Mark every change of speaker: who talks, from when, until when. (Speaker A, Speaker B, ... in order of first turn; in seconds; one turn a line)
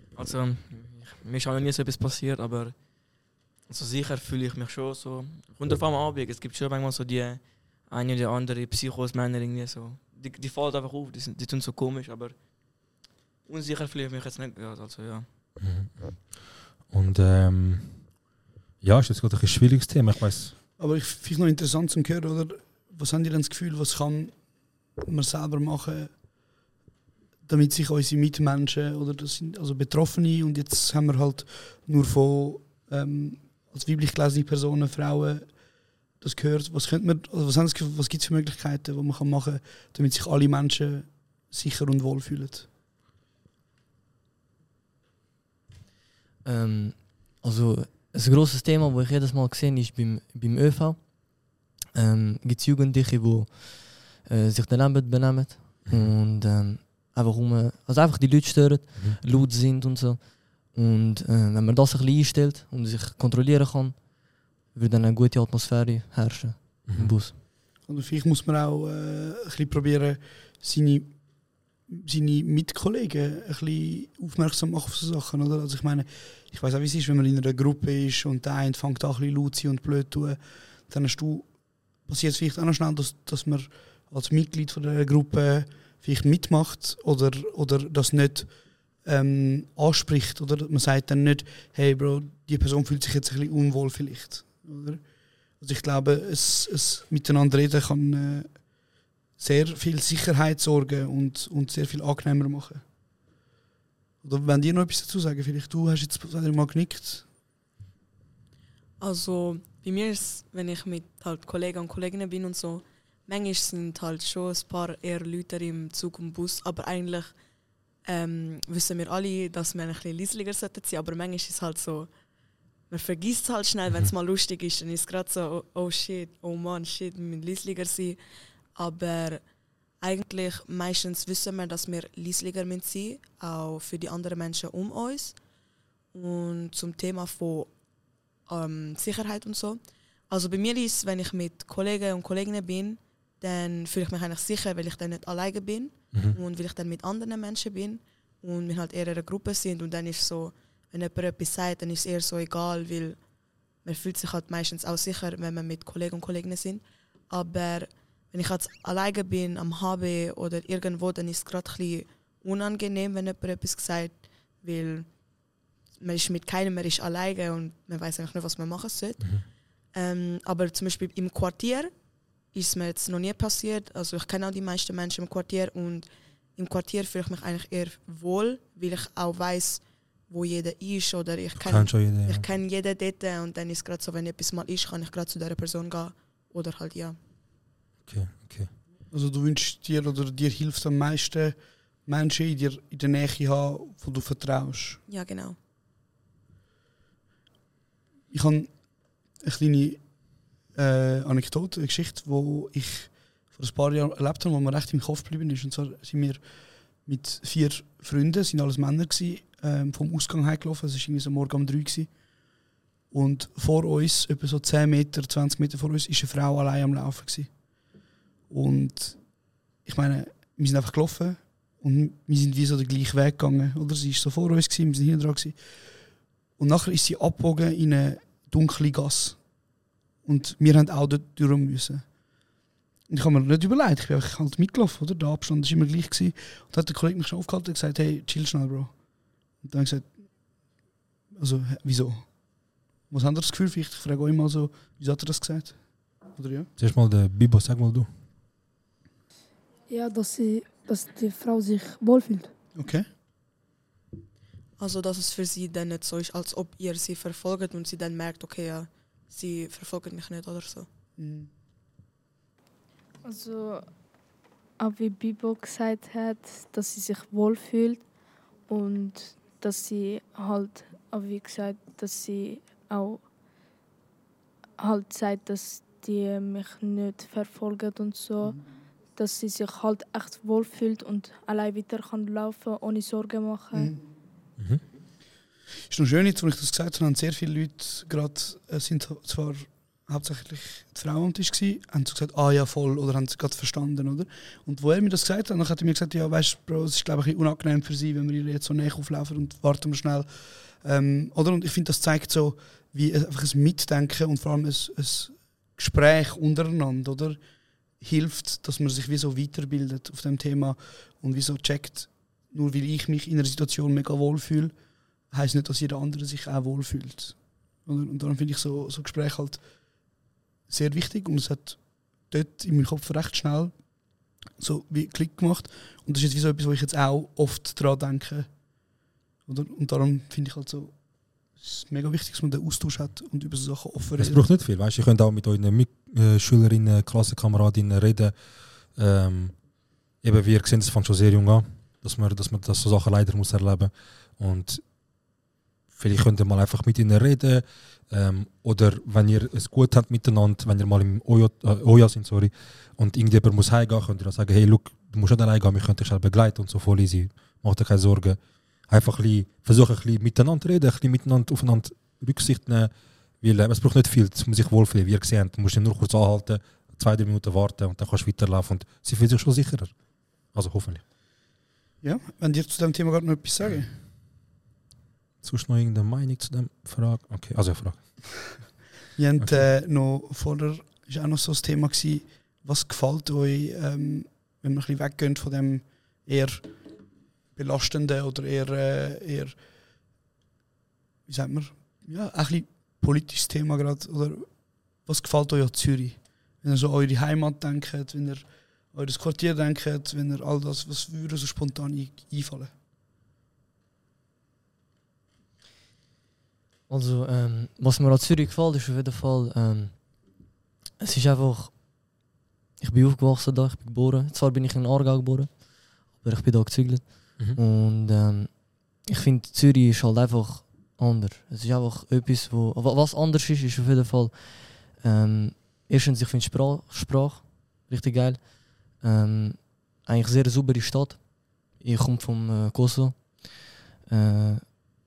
Speaker A: 0.1-12.8
Speaker A: 13.5-15.3
Speaker B: 15.6-18.3
Speaker B: 18.8-20.6
Speaker C: 20.8-26.3
Speaker C: 27.4-42.7
Speaker D: 46.4-67.3
Speaker B: 66.9-67.2
Speaker C: 67.8-102.9
Speaker C: 104.2-107.3
Speaker E: 109.0-135.4
Speaker E: 136.1-187.2
Speaker B: 146.1-146.4
Speaker B: 169.2-169.4
Speaker B: 181.6-182.4
Speaker B: 188.0-188.7
Speaker C: 189.1-195.0
Speaker E: 195.1-195.6
Speaker C: 198.3-212.6
Speaker C: 213.1-217.8
Speaker C: 218.5-229.7
Speaker C: 230.2-232.4
Speaker C: 233.1-240.7
Speaker C: 241.3-246.7
Speaker B: 246.8-248.1
Speaker F: 249.9-252.5
Speaker C: 252.7-253.1
Speaker E: 254.8-260.9
Speaker C: 261.2-261.5
Speaker G: 263.2-264.0
Speaker G: 264.8-268.1
Speaker G: 268.7-273.3
Speaker G: 274.8-278.6
Speaker G: 279.1-283.9
Speaker C: 283.7-284.0
Speaker B: 284.6-284.8
Speaker C: 285.9-320.1
Speaker C: 320.7-328.9
Speaker C: 329.5-334.4
Speaker B: 334.2-344.8
Speaker B: 345.9-371.1
Speaker C: 372.0-374.0
Speaker B: 375.4-378.6
Speaker C: 379.2-389.7
Speaker B: 379.4-379.7
Speaker C: 391.3-402.7
Speaker D: 406.9-412.2
Speaker D: 412.8-434.7